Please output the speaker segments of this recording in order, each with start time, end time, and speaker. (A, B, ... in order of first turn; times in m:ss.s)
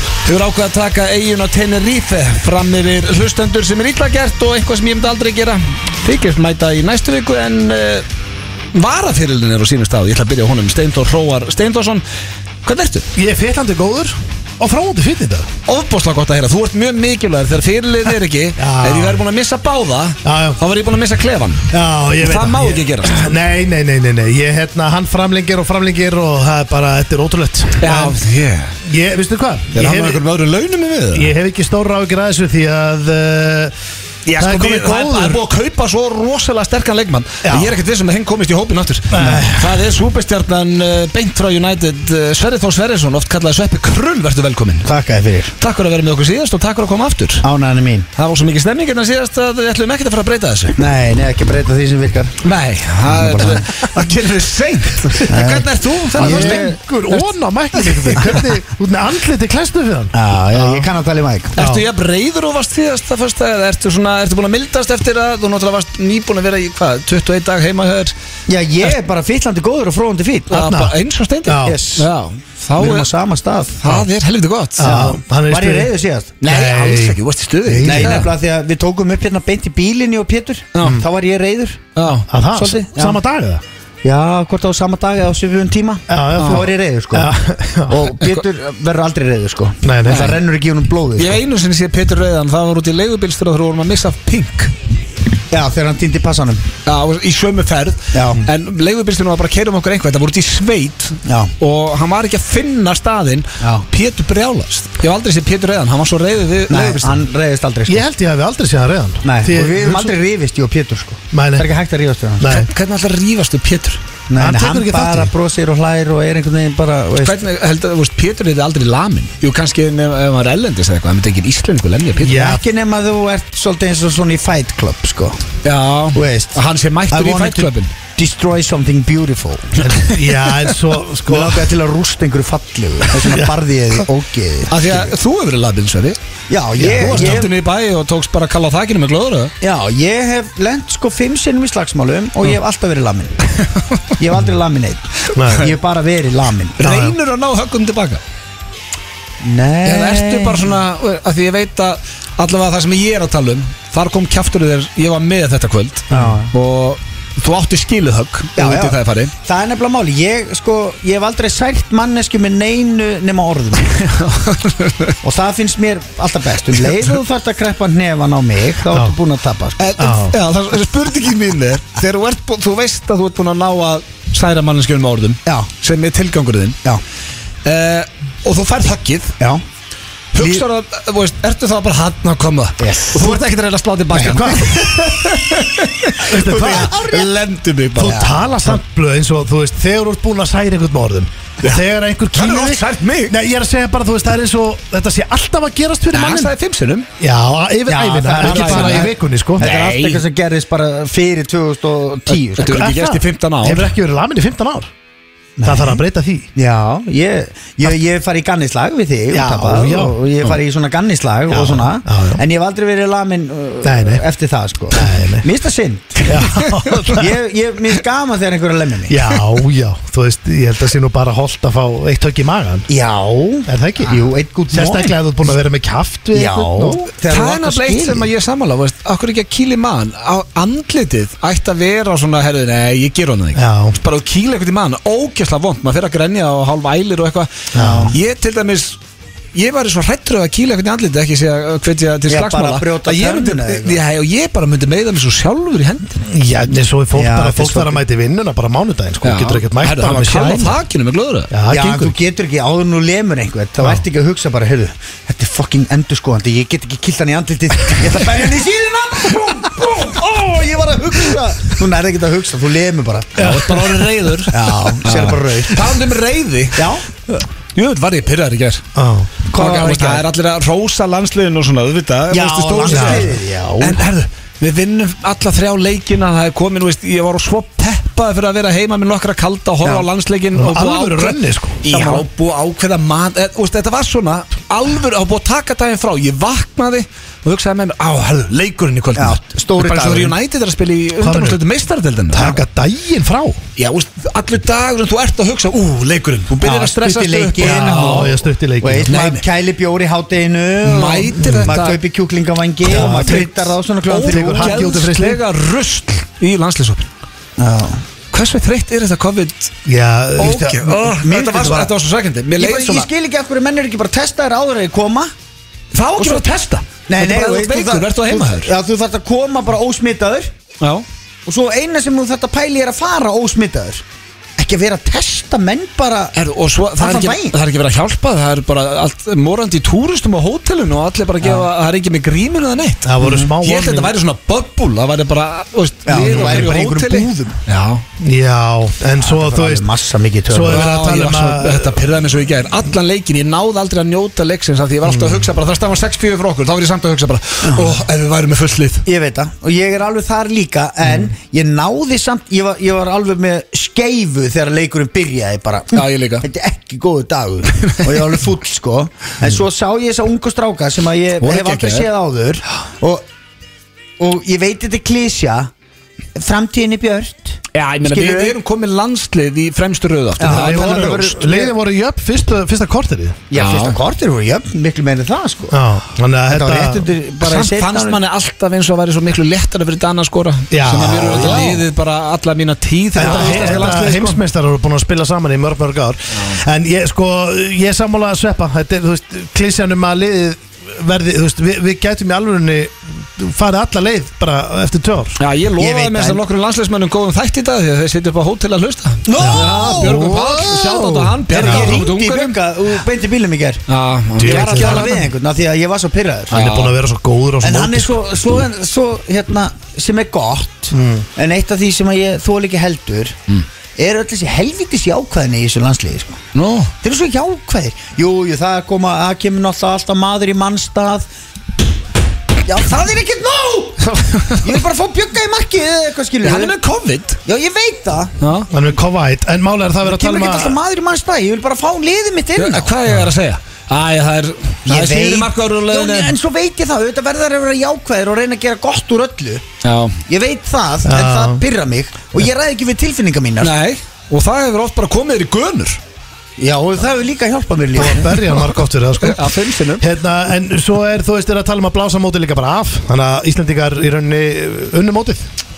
0:00.2-0:08.0 A
0:08.7-0:12.0 A
0:12.6-0:13.1 A
0:13.1-0:15.5 B
0:15.6-0:21.7 A
0:18.6-0:19.2 B
0:20.2-0:20.6 B
0:21.7-0:28.2 B
0:22.2-0:23.3 A
0:27.8-0:28.7 A
0:28.8-0:30.2 B
0:29.7-0:31.3 A
0:31.1-0:33.7 B
0:34.2-0:44.9 A
0:34.4-0:35.4 B
0:37.4-0:37.8 B
0:39.1-0:39.9 B
0:44.8-0:45.5 C
0:45.6-0:47.4 A
0:47.4-0:48.1 C
0:48.2-0:50.8 A
0:50.8-0:52.3 C
0:52.4-0:58.5 A
0:53.1-0:53.6 C
0:53.2-0:53.6 B
0:55.3-0:56.8 C
0:56.2-1:00.9 B
1:00.1-1:01.6 C
1:01.6-1:01.9 B
1:01.6-1:08.1 A
1:08.5-1:10.5 C
1:10.5-1:13.1 A
1:10.5-1:12.0 B
1:11.6-1:12.0 C
1:12.8-1:13.8 C
1:13.8-1:14.9 A
1:14.8-1:15.9 B
1:14.8-1:16.4 C
1:16.4-1:18.3 A
1:16.4-1:18.3 B
1:17.8-1:21.8 C
1:20.7-1:21.0 A
1:22.0-1:22.3 A
1:22.3-1:23.6 B
1:22.5-1:23.2 C
1:24.0-1:27.3 C
1:26.1-1:28.1 B
1:26.4-1:26.7 A
1:27.9-1:31.4 C
1:29.8-1:30.4 B
1:30.1-1:30.4 A
1:31.2-1:34.7 A
1:35.5-1:36.6 C
1:36.8-1:47.2 A
1:38.1-1:38.4 C
1:41.2-1:41.5 C
1:43.6-1:43.8 C
1:46.7-1:48.0 C
1:47.9-1:50.1 B
1:49.2-1:52.5 C
1:51.3-1:51.7 B
1:52.4-1:52.7 B
1:52.5-1:54.0 A
1:54.3-1:57.4 C
1:54.4-1:55.3 B
1:57.2-2:02.6 A
2:02.2-2:02.6 B
2:02.3-2:05.4 C
2:05.6-2:07.9 A
2:06.1-2:06.6 C
2:07.1-2:09.7 C
2:09.8-2:11.7 B
2:09.8-2:10.8 A
2:11.2-2:15.1 C
2:13.3-2:13.5 B
2:14.7-2:16.2 A
2:16.5-2:17.5 C
2:16.8-2:17.5 B
2:16.8-2:19.5 A
2:19.6-2:23.4 C
2:24.2-2:26.8 C
2:25.3-2:25.7 B
2:26.8-2:28.2 A
2:26.8-2:27.2 B
2:29.4-2:30.7 C
2:29.8-2:39.3 A
2:36.1-2:36.5 C
2:38.6-2:43.9 C
2:43.8-2:45.2 A
2:45.2-2:49.8 C
2:48.9-2:49.2 B
2:49.8-2:56.8 A
2:50.0-2:50.4 B
2:57.6-2:59.3 A
3:00.3-3:08.4 A
3:00.4-3:00.6 B
3:02.8-3:03.4 C
3:04.1-3:04.9 B
3:04.1-3:04.4 C
3:06.2-3:06.9 B
3:06.4-3:07.3 C
3:08.0-3:16.5 B
3:08.0-3:08.3 C
3:12.3-3:13.3 A
3:16.1-3:17.1 A
3:17.2-3:19.6 B
3:17.9-3:22.9 C
3:18.4-3:20.2 A
3:22.3-3:23.9 A
3:22.6-3:24.9 B
3:25.6-3:26.0 C
3:25.6-3:26.5 B
3:26.5-3:36.4 C
3:29.3-3:30.5 B
3:31.5-3:32.4 B
3:33.8-3:34.2 B
3:34.9-3:35.4 B
3:36.2-3:37.3 B
3:36.6-3:36.9 A
3:37.0-3:39.2 C
3:39.1-3:42.9 B
3:42.9-3:45.1 C
3:43.7-3:44.2 B
3:44.7-3:47.0 B
3:46.3-3:48.3 C
3:47.3-3:59.0 A
3:53.5-3:54.0 B
3:57.7-3:58.1 B
3:57.7-3:58.2 C
3:59.5-4:06.2 A
4:02.3-4:04.0 C
4:06.2-4:10.8 B
4:07.1-4:08.0 C
4:09.2-4:11.8 A
4:11.5-4:12.1 B
4:11.7-4:23.4 C
4:17.9-4:18.4 A
4:19.3-4:20.2 A
4:23.3-4:24.5 B
4:23.4-4:26.9 A
4:24.5-4:25.9 C
4:26.7-4:27.0 C
4:27.7-4:28.8 A
4:28.9-4:29.3 B
4:29.5-4:30.2 C
4:29.5-4:52.6 A
4:32.3-4:34.0 C
4:32.9-4:33.3 B
4:40.5-4:42.0 B
4:41.9-4:42.2 C
4:49.1-4:50.4 C
4:51.2-4:51.6 B
4:52.3-4:53.6 B
4:53.8-4:58.4 A
4:56.6-5:04.9 C
4:57.6-4:59.2 B
4:59.1-4:59.4 A
5:00.8-5:02.0 A
5:01.4-5:01.8 B
5:02.8-5:05.4 B
5:04.1-5:07.0 A
5:07.6-5:08.0 C
5:08.3-5:09.7 A
5:09.8-5:11.0 B
5:10.4-5:13.1 A
5:10.8-5:11.9 C
5:12.6-5:15.3 C
5:15.9-5:18.7 A
5:16.2-5:16.5 C
5:17.1-5:20.5 C
5:21.4-5:24.0 C
5:24.6-5:26.3 C
5:26.3-5:38.0 A
5:27.0-5:27.6 C
5:33.0-5:34.1 B
5:33.2-5:33.5 C
5:36.0-5:37.6 C
5:36.1-5:36.7 B
5:38.2-5:39.8 B
5:39.2-5:40.9 C
5:40.5-5:42.0 B
5:40.7-5:49.0 A
5:45.1-5:45.4 B
5:47.6-5:48.0 C
5:49.0-6:03.2 C
5:55.9-5:56.4 A
5:57.8-5:58.3 A
6:01.4-6:02.1 A
6:04.2-6:05.7 C
6:06.3-6:08.6 C
6:07.7-6:11.3 A
6:10.4-6:11.7 C
6:10.4-6:13.4 B
6:13.5-6:15.8 C
6:13.5-6:14.0 A
6:15.7-6:17.0 B
6:16.5-6:18.2 C
6:17.4-6:24.4 A
6:20.7-6:21.8 B
6:20.9-6:21.8 C
6:23.1-6:35.4 B
6:23.2-6:23.9 C
6:26.3-6:26.6 A
6:35.4-6:42.6 A
6:35.8-6:36.4 C
6:39.2-6:43.8 C
6:39.4-6:40.5 B
6:41.6-6:42.1 B
6:43.9-6:45.3 A
6:44.4-6:45.2 B
6:44.4-6:46.7 C
6:46.5-6:47.0 A
6:46.5-6:48.4 B
6:47.6-6:53.4 C
6:50.9-6:51.2 B
6:54.0-6:56.4 C
6:56.5-6:56.9 A
6:57.0-7:01.2 C
7:02.6-7:04.0 C
7:04.0-7:04.8 A
7:04.6-7:06.8 C
7:06.4-7:07.4 A
7:07.4-7:08.3 C
7:08.4-7:08.7 A
7:08.7-7:10.8 B
7:10.0-7:12.9 C
7:12.6-7:16.3 A
7:14.8-7:19.6 C
7:19.8-7:20.2 A
7:20.3-7:23.7 C
7:21.0-7:21.6 B
7:23.6-7:26.0 A
7:26.6-7:28.4 C
7:27.9-7:35.5 B
7:29.2-7:30.0 A